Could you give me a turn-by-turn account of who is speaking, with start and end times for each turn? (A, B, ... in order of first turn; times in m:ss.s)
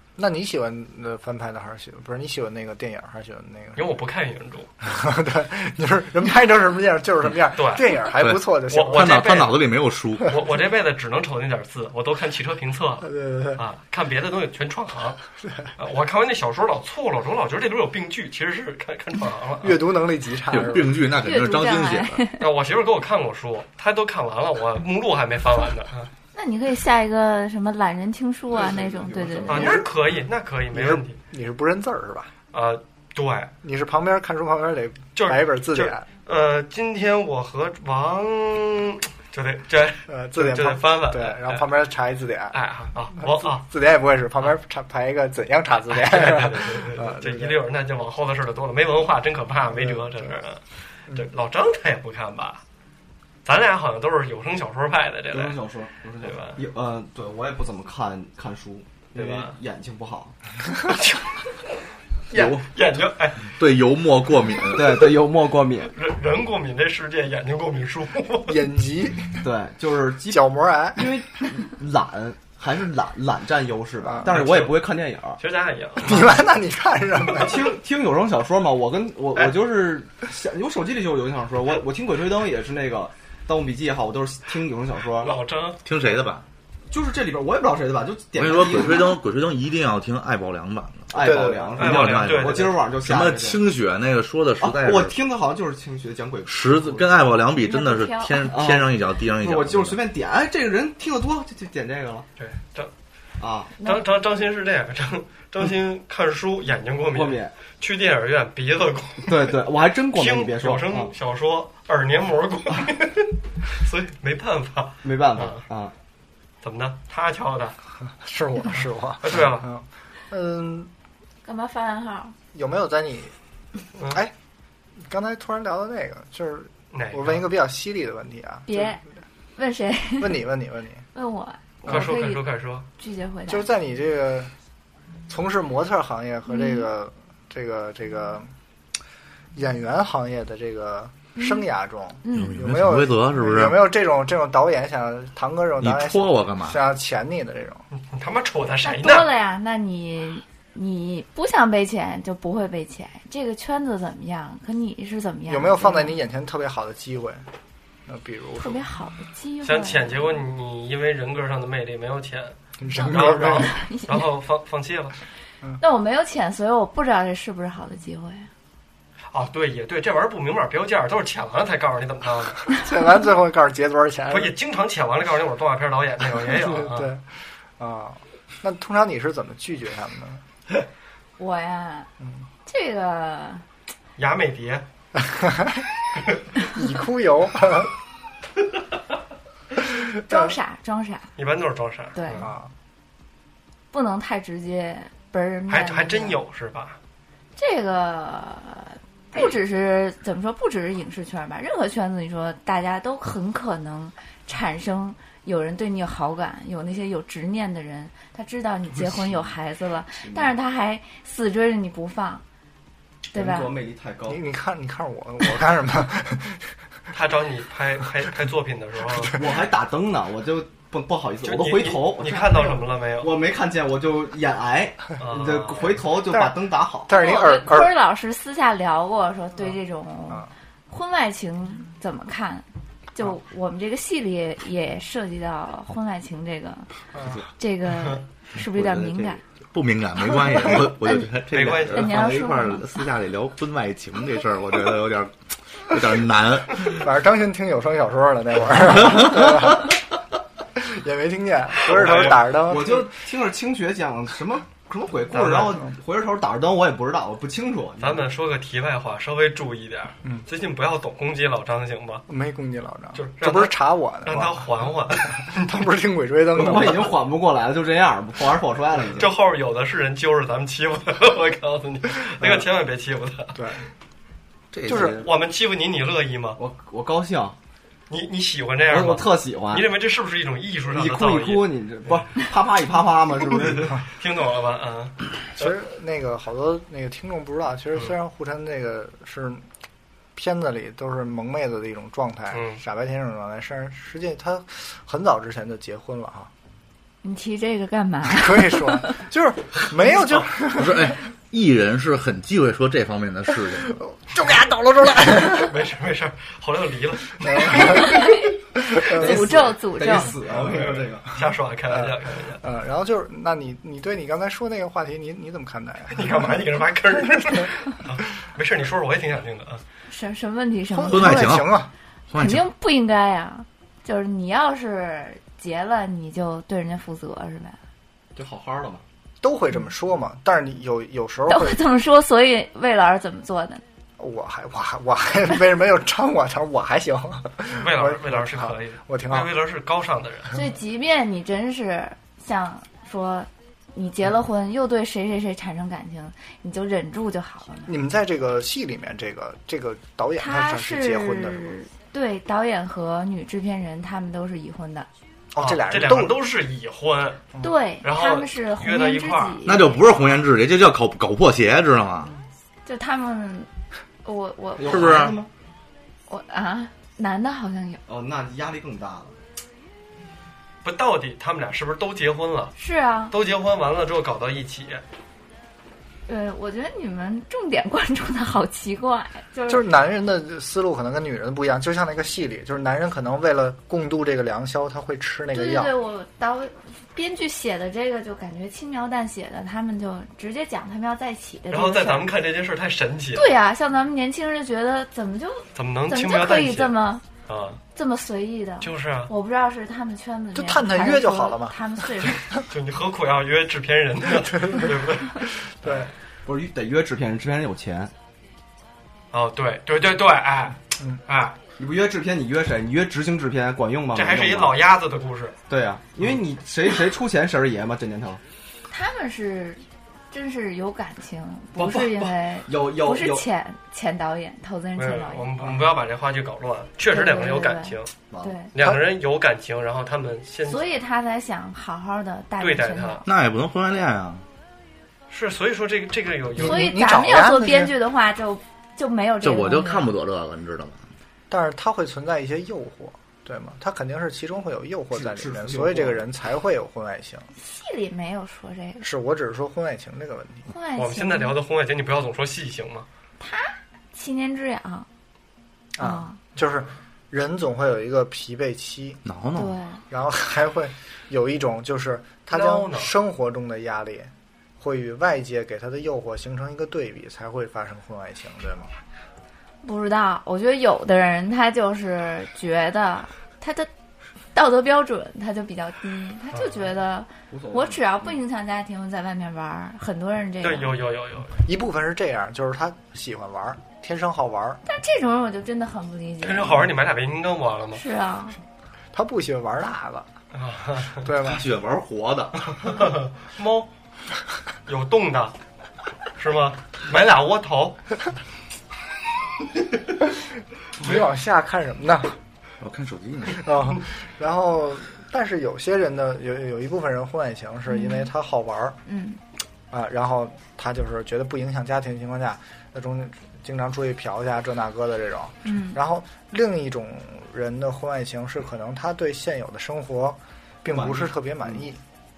0:00.2-0:03.9 A
0:03.7-0:04.7 B
0:04.8-0:09.1 A
0:07.5-0:08.0 B
0:08.2-0:08.4 C
0:08.7-0:09.6 B
0:08.9-0:10.4 C
0:10.3-0:15.2 B
0:13.0-0:13.6 A
0:15.4-0:15.7 A
0:15.8-0:20.0 B
0:19.6-0:21.0 A
0:20.5-0:22.2 C
0:21.2-0:22.5 D
0:22.4-0:26.1 B
0:26.3-0:29.7 D
0:28.5-0:29.7 E
0:29.4-0:31.2 B
0:29.5-0:29.9 A
0:30.7-0:32.3 A
0:32.5-0:33.5 B
0:33.6-0:36.0 A
0:35.2-0:41.6 B
0:40.1-0:42.6 A
0:42.5-0:43.6 B
0:43.2-0:47.6 A
0:45.9-0:52.6 B
0:49.8-0:50.2 A
0:53.4-0:55.6 B
0:55.3-1:00.3 E
0:56.2-0:56.6 B
0:59.1-0:59.6 B
1:00.9-1:01.5 B
1:02.3-1:03.5 B
1:02.3-1:02.6 E
1:03.5-1:05.1 C
1:04.7-1:05.9 E
1:05.9-1:08.6 B
1:08.5-1:09.4 A
1:09.4-1:10.4 E
1:10.3-1:11.1 A
1:10.9-1:15.4 E
1:14.2-1:14.8 B
1:15.4-1:16.4 B
1:16.0-1:17.7 A
1:17.3-1:25.4 E
1:25.2-1:25.8 B
1:25.8-1:26.4 C
1:26.9-1:29.2 E
1:28.4-1:35.2 C
1:31.1-1:33.6 E
1:31.1-1:31.8 A
1:31.8-1:32.8 B
1:34.6-1:37.0 E
1:36.5-1:40.0 C
1:37.6-1:38.6 D
1:38.5-1:42.2 E
1:42.4-1:42.9 B
1:43.4-1:43.7 E
1:43.8-1:44.0 D
1:43.8-1:49.6 B
1:47.1-1:47.5 E
1:49.2-1:51.1 E
1:50.1-1:55.6 B
1:55.0-1:55.9 E
1:56.6-1:57.8 B
1:58.2-2:00.9 A
1:59.2-1:59.7 B
2:01.4-2:02.3 D
2:02.5-2:03.3 A
2:04.1-2:04.3 A
2:05.0-2:09.0 A
2:06.9-2:07.4 B
2:08.7-2:09.0 D
2:09.6-2:10.4 D
2:10.2-2:11.0 A
2:11.1-2:13.7 D
2:11.8-2:12.9 B
2:13.5-2:14.5 A
2:15.3-2:18.5 A
2:16.5-2:16.9 D
2:19.5-2:27.8 A
2:21.4-2:21.6 D
2:22.2-2:22.6 D
2:22.3-2:23.8 C
2:25.8-2:26.8 C
2:28.0-2:29.3 B
2:28.8-2:36.2 D
2:35.5-2:37.4 A
2:38.1-2:38.8 A
2:38.6-2:40.4 D
2:39.6-2:45.1 B
2:42.8-2:43.7 A
2:42.9-2:44.3 D
2:45.8-2:48.5 D
2:49.3-2:52.6 B
2:52.7-2:54.5 A
2:54.3-2:57.1 B
2:56.5-2:57.2 A
2:57.8-3:00.4 A
3:01.4-3:02.1 D
3:02.6-3:03.6 D
3:04.2-3:04.9 B
3:05.2-3:05.8 A
3:06.6-3:07.9 A
3:10.2-3:11.3 D
3:10.3-3:10.5 A
3:11.4-3:12.4 B
3:12.1-3:12.5 D
3:12.4-3:12.7 A
3:13.9-3:16.4 D
3:15.7-3:17.0 B
3:17.6-3:32.4 D
3:29.1-3:29.3 E
3:30.2-3:30.5 E
3:33.3-3:33.7 D
3:33.3-3:34.4 E
3:34.3-3:36.7 A
3:37.1-3:39.3 B
3:39.3-3:47.1 E
3:41.4-3:43.3 B
3:45.2-3:46.0 B
3:46.3-3:46.5 A
3:47.1-3:47.9 A
3:47.1-3:56.9 D
3:57.1-3:57.4 A
3:57.6-3:59.4 D
3:58.6-4:07.0 C
4:00.8-4:01.3 D
4:01.5-4:02.1 B
4:01.9-4:02.9 D
4:06.8-4:09.9 A
4:09.2-4:09.5 C
4:10.7-4:13.1 A
4:11.8-4:12.5 B
4:12.2-4:18.2 E
4:15.3-4:15.8 B
4:18.0-4:22.2 B
4:22.3-4:24.6 A
4:23.1-4:25.9 B
4:25.2-4:27.1 A
4:26.5-4:29.3 E
4:29.1-4:33.6 B
4:33.5-4:33.8 A
4:34.7-4:35.2 C
4:34.9-4:35.2 A
4:34.9-4:36.6 B
4:36.6-4:37.6 E
4:38.1-4:41.7 B
4:38.9-4:39.9 E
4:40.9-4:44.0 E
4:43.6-4:45.7 B
4:45.5-4:49.6 A
4:50.3-4:56.5 A
4:52.5-4:52.8 B
4:57.2-4:59.1 D
4:58.3-5:01.2 A
5:00.8-5:04.0 C
5:03.8-5:05.8 A
5:05.3-5:08.2 B
5:07.4-5:09.4 A
5:07.8-5:10.4 D
5:09.0-5:11.4 E
5:10.5-5:12.6 B
5:11.9-5:16.4 A
5:16.1-5:19.8 B
5:20.1-5:21.7 D
5:20.9-5:21.9 A
5:21.1-5:21.8 C
5:22.3-5:22.6 C
5:22.3-5:27.8 D
5:28.3-5:29.0 E
5:29.4-5:31.8 A
5:31.5-5:33.8 D
5:34.2-5:39.5 A
5:37.7-5:40.6 B
5:40.5-5:47.9 D
5:47.9-5:51.8 A
5:50.4-5:55.1 D
5:55.5-5:56.4 A
5:55.6-5:57.4 B
5:57.6-5:59.9 D
5:58.0-5:59.7 B
5:59.6-6:02.3 C
6:02.8-6:03.7 D
6:04.2-6:05.3 D
6:04.8-6:05.5 E
6:04.8-6:05.4 C
6:06.3-6:08.0 D
6:08.0-6:09.4 E
6:10.8-6:12.7 B
6:12.8-6:13.3 D
6:13.3-6:15.0 B
6:16.3-6:19.8 D
6:19.7-6:25.9 A
6:25.5-6:32.3 D
6:31.7-6:33.5 B
6:33.3-6:37.2 D
6:35.7-6:36.9 B
6:37.5-6:37.8 B
6:37.9-6:42.4 D
6:38.8-6:39.3 B
6:40.5-6:42.2 A
6:42.7-6:46.0 B
6:44.6-6:44.9 A
6:45.6-6:46.1 A
6:46.4-6:48.1 E
6:49.3-6:51.6 B
6:51.8-6:54.8 E
6:54.1-6:55.6 B
6:55.7-6:58.4 E
6:58.9-7:05.7 D
7:01.7-7:03.4 E
7:05.0-7:08.1 B
7:07.1-7:08.7 D
7:08.7-7:10.9 B
7:10.6-7:13.2 D
7:12.6-7:13.2 B
7:13.2-7:14.4 C
7:15.3-7:16.9 B
7:16.6-7:17.9 A
7:16.6-7:20.1 D
7:19.4-7:21.0 C
7:21.5-7:27.5 A
7:25.1-7:26.3 E
7:27.6-7:29.0 D
7:29.0-7:30.7 A
7:30.7-7:31.6 D
7:31.0-7:33.1 B
7:33.4-7:35.1 D
7:36.0-7:39.2 A
7:36.0-7:36.4 D
7:39.2-7:39.8 C
7:39.5-7:40.0 D
7:40.1-7:48.9 A
7:42.5-7:43.1 B
7:49.8-7:53.9 D
7:54.5-8:00.9 D
7:57.5-7:58.3 E
8:00.6-8:01.6 B
8:01.6-8:04.8 A
8:04.8-8:06.8 D
8:06.4-8:08.0 B
8:07.9-8:08.6 D
8:09.1-8:10.3 A
8:10.5-8:11.2 B
8:11.2-8:11.6 A
8:11.4-8:12.8 C
8:12.8-8:13.9 B
8:14.8-8:15.6 B
8:16.4-8:18.0 B
8:21.0-8:22.4 A
8:22.8-8:23.7 C
8:23.6-8:29.0 A
8:27.9-8:28.3 D
8:29.0-8:29.4 D
8:29.9-8:42.0 A
8:35.6-8:36.0 D
8:40.9-8:41.8 E